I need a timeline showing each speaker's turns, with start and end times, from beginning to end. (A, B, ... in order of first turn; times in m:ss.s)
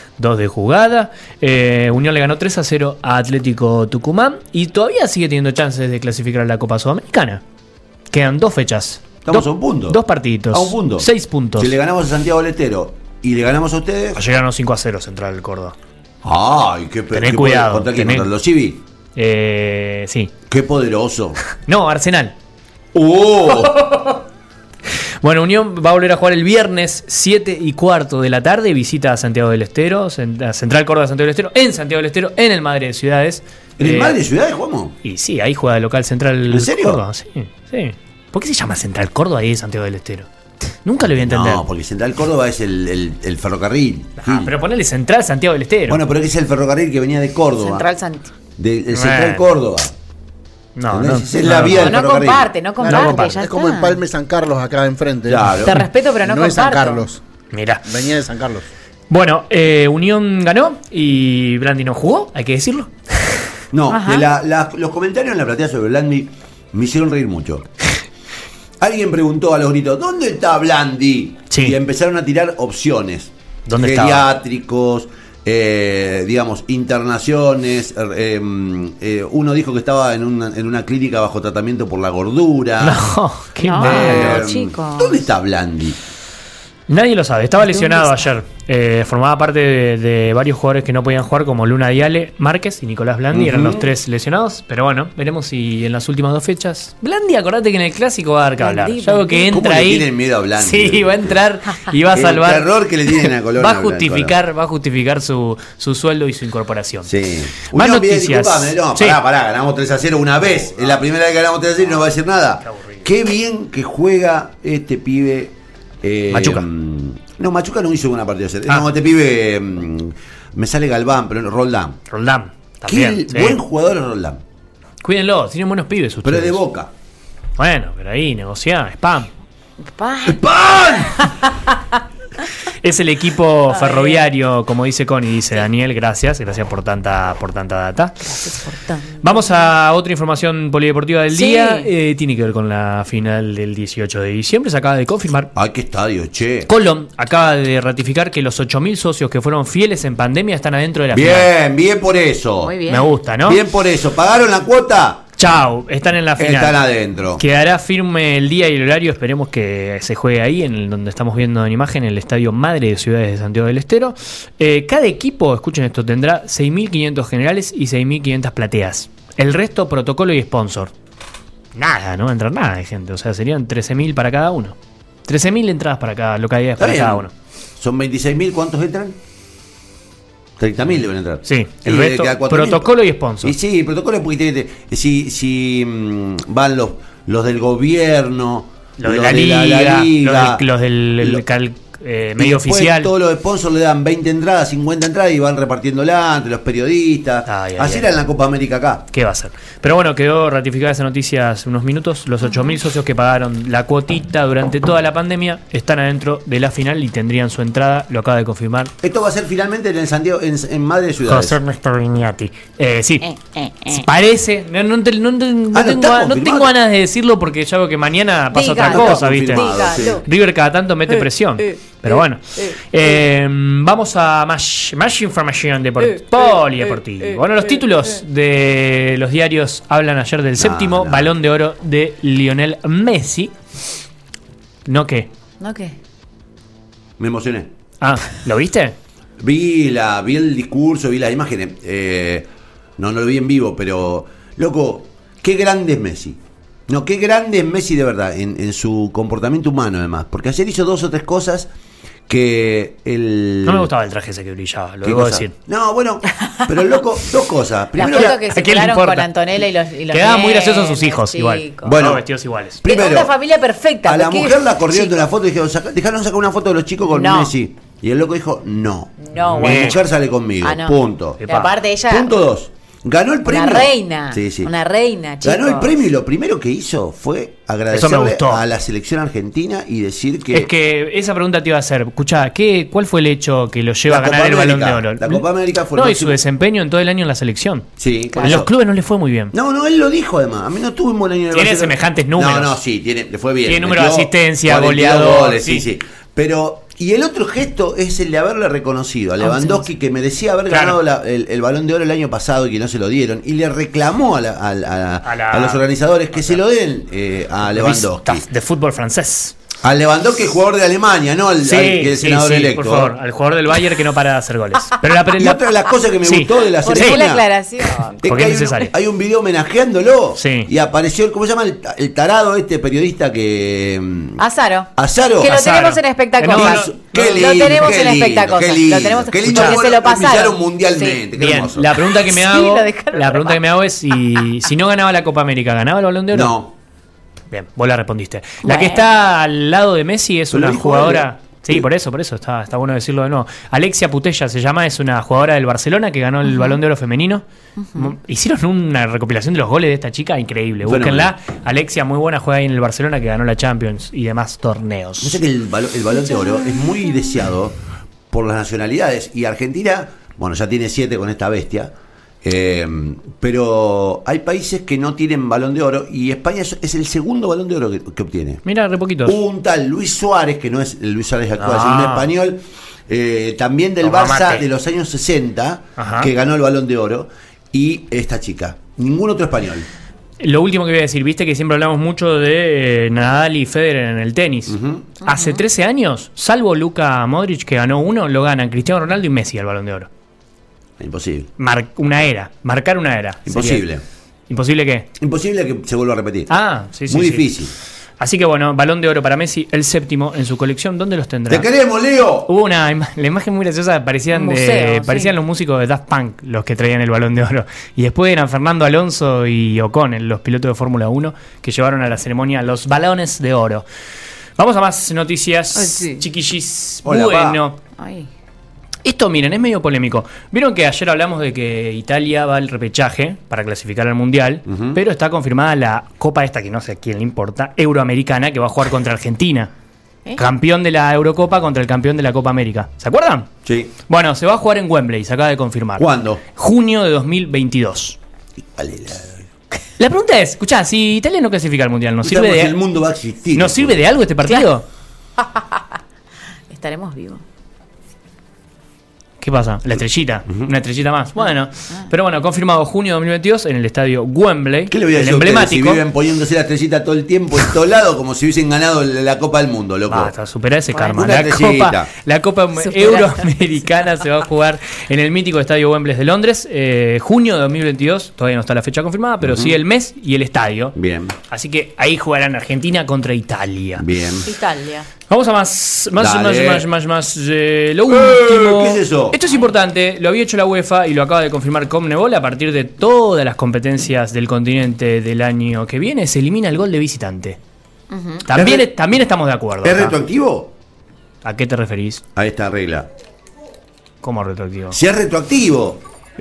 0:00.2-0:07.4 A
0:08.1-0:11.7 A
0:09.2-0:10.0 B
0:10.5-0:14.2 B
0:14.1-0:15.7 A
0:16.2-0:18.8 B
0:17.1-0:18.3 A
0:19.2-0:20.3 A
0:20.5-0:21.4 B
0:21.6-0:22.3 A
0:22.9-0:23.8 B
0:23.6-0:24.2 A
0:25.2-0:34.2 A
0:33.8-0:34.9 B
0:35.0-0:40.3 A
0:36.5-0:37.0 B
0:40.8-0:41.6 A
0:41.1-0:44.5 B
0:44.2-0:46.0 A
0:45.9-0:47.8 B
0:47.6-0:48.3 C
0:48.6-0:49.9 B
0:48.9-0:49.5 A
0:50.8-0:52.0 A
0:50.9-0:52.5 B
0:51.7-0:54.0 C
0:52.8-0:57.2 D
0:52.8-0:53.4 A
0:55.3-0:55.8 B
0:55.6-0:57.1 C
0:57.5-0:57.8 A
0:57.8-0:58.7 D
0:59.1-1:03.4 A
1:03.7-1:07.7 B
1:03.9-1:04.2 C
1:08.8-1:23.0 B
1:11.5-1:11.8 A
1:13.6-1:14.3 A
1:22.8-1:24.4 A
1:23.6-1:25.2 C
1:23.8-1:26.0 B
1:26.9-1:47.1 A
1:27.6-1:28.2 C
1:33.3-1:33.9 B
1:38.6-1:39.4 C
1:39.5-1:41.3 B
1:42.1-1:44.3 B
1:47.0-2:02.0 B
1:47.7-1:49.2 A
1:52.7-1:53.0 A
1:56.3-1:56.6 A
2:02.1-2:03.6 A
2:02.8-2:04.4 B
2:05.0-2:06.6 A
2:06.2-2:06.9 B
2:07.6-2:09.3 A
2:09.9-2:11.8 C
2:10.2-2:11.2 B
2:12.6-2:18.2 A
2:13.7-2:14.3 C
2:18.2-2:19.6 C
2:19.2-2:25.5 A
2:21.3-2:21.9 C
2:25.5-2:26.7 B
2:26.7-2:31.5 A
2:31.1-2:32.8 B
2:32.6-2:33.1 C
2:32.9-2:33.6 A
2:33.4-2:35.2 B
2:35.4-2:36.8 A
2:36.4-2:37.4 B
2:37.4-2:50.9 A
2:51.7-2:57.3 A
2:56.8-2:57.3 B
2:57.8-2:59.2 B
3:00.6-3:10.6 B
3:01.4-3:03.5 A
3:09.0-3:13.1 A
3:12.4-3:19.1 B
3:17.5-3:18.1 A
3:19.1-3:28.9 A
3:29.0-3:31.6 B
3:31.2-3:53.5 A
3:33.6-3:33.9 C
3:35.7-3:36.7 B
3:38.5-3:40.2 C
3:38.8-3:40.2 B
3:41.7-3:42.7 C
3:46.1-3:47.4 C
3:50.6-3:51.4 B
3:54.8-3:55.3 A
3:55.6-3:56.0 C
3:57.2-3:57.7 B
3:58.0-3:59.0 A
3:59.4-4:02.4 B
4:03.0-4:06.4 B
4:06.9-4:11.7 B
4:12.3-4:13.9 B
4:13.6-4:15.5 A
4:15.0-4:18.4 B
4:18.0-4:22.0 C
4:18.0-4:19.3 A
4:20.1-4:22.8 A
4:21.8-4:22.2 B
4:22.8-4:23.3 B
4:22.8-4:25.2 C
4:24.0-4:31.4 B
4:27.1-4:27.5 C
4:29.2-4:30.0 C
4:29.5-4:30.0 A
4:30.6-4:32.4 C
4:31.4-4:31.7 A
4:32.1-4:34.7 B
4:33.4-4:35.9 C
4:35.4-4:40.7 B
4:37.9-4:38.6 A
4:40.5-4:47.9 A
4:44.1-4:46.4 B
4:48.0-4:48.7 B
4:48.3-4:48.6 C
4:48.4-4:49.5 A
4:49.5-5:08.4 B
4:51.5-4:52.8 A
4:53.6-4:55.8 A
4:59.4-4:59.8 C
5:00.7-5:01.0 A
5:05.2-5:06.6 A
5:07.6-5:09.6 A
5:09.8-5:13.1 B
5:11.6-5:15.6 A
5:15.3-5:17.4 B
5:16.2-5:17.2 A
5:16.8-5:18.5 C
5:18.2-5:24.4 B
5:18.2-5:18.9 A
5:20.4-5:20.7 A
5:24.4-5:31.2 C
5:25.0-5:25.6 B
5:25.5-5:27.5 A
5:26.4-5:31.9 B
5:29.4-5:29.8 A
5:31.4-5:36.5 A
5:32.0-5:33.6 C
5:36.3-5:36.7 B
5:37.5-5:47.4 A
5:38.6-5:39.1 C
5:40.5-5:41.8 B
5:46.4-5:46.8 C
5:47.8-5:48.1 C
5:47.9-5:55.4 A
5:50.8-5:51.3 B
5:55.2-5:57.8 B
5:56.3-5:56.7 C
5:58.3-6:08.6 B
6:08.6-6:09.4 A
6:09.2-6:19.8 B
6:11.6-6:12.3 A
6:14.0-6:14.6 A
6:16.0-6:16.3 A
6:20.4-6:30.1 A
6:24.7-6:25.1 B
6:25.2-6:25.6 C
6:31.0-6:31.5 B
6:31.6-6:33.8 A
6:33.4-6:34.0 B
6:34.5-6:35.1 A
6:35.2-6:36.5 B
6:36.5-6:37.5 A
6:37.1-6:37.7 B
6:38.2-6:41.7 A
6:41.5-6:42.5 B
6:42.4-6:53.8 A
6:44.3-6:45.3 C
6:54.6-6:57.8 A
6:55.8-6:56.2 C
6:57.0-6:57.6 B
6:58.0-6:58.3 C
6:59.0-7:09.7 A
7:04.7-7:05.0 B
7:10.4-7:13.5 A
7:13.6-7:13.9 B
7:14.1-7:18.2 A
7:16.0-7:16.4 B
7:18.6-7:19.4 B
7:20.0-7:22.8 A
7:22.2-7:24.0 B
7:23.5-7:24.8 A
7:25.4-7:25.8 C
7:26.7-7:27.4 C
7:29.4-7:36.0 A
7:34.9-7:40.3 B
7:40.1-7:51.0 A
7:41.0-7:42.1 B
7:42.8-7:43.6 C
7:49.4-7:49.8 B
7:50.9-7:51.4 B
7:51.5-7:54.0 A
7:54.0-7:54.5 B
7:54.4-7:55.1 C
7:55.3-8:07.6 A
7:56.2-7:56.9 B
7:58.1-7:59.4 B
8:08.1-8:08.4 C
8:08.4-8:10.1 A
8:08.5-8:08.9 B
8:09.8-8:10.7 B
8:11.4-8:12.2 A
8:12.3-8:13.1 B
8:14.2-8:15.0 A
8:14.9-8:16.0 B